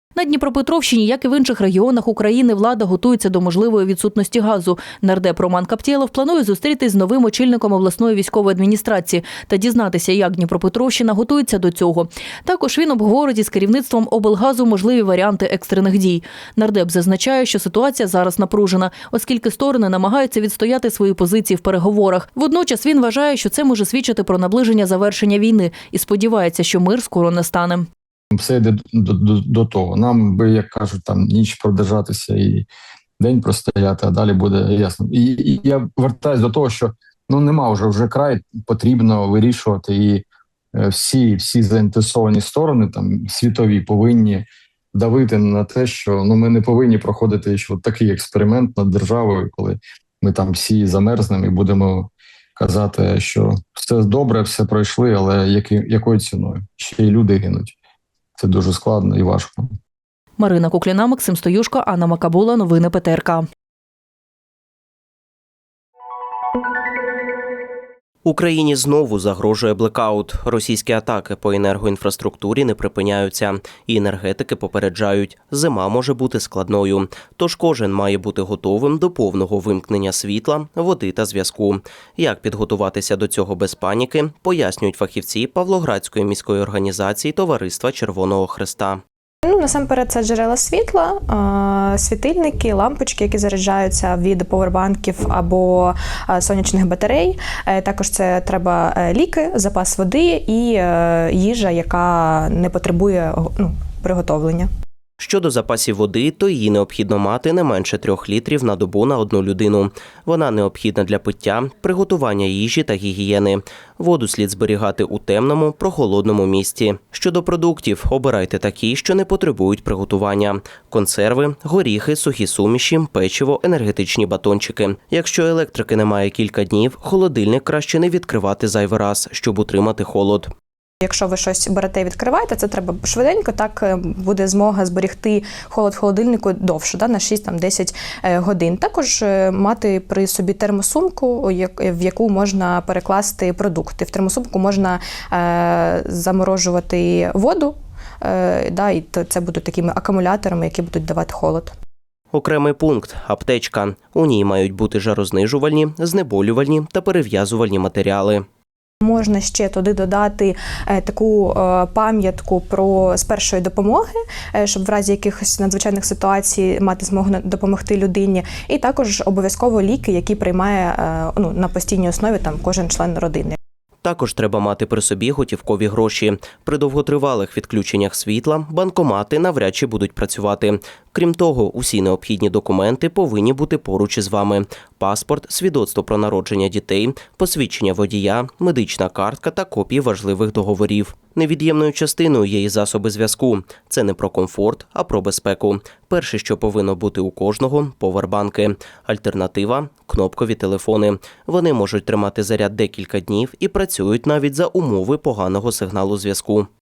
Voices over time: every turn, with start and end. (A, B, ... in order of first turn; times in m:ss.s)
0:00.2-0:27.9 A
0:28.3-0:32.7 B
0:33.2-0:57.8 B
0:58.4-0:59.7 B
1:00.4-1:03.4 A
1:08.2-1:29.0 C
1:29.4-1:44.7 D
1:45.2-2:10.5 C
2:11.0-2:31.7 D
2:32.3-2:38.4 C
2:39.0-2:53.6 D
2:54.0-3:26.7 C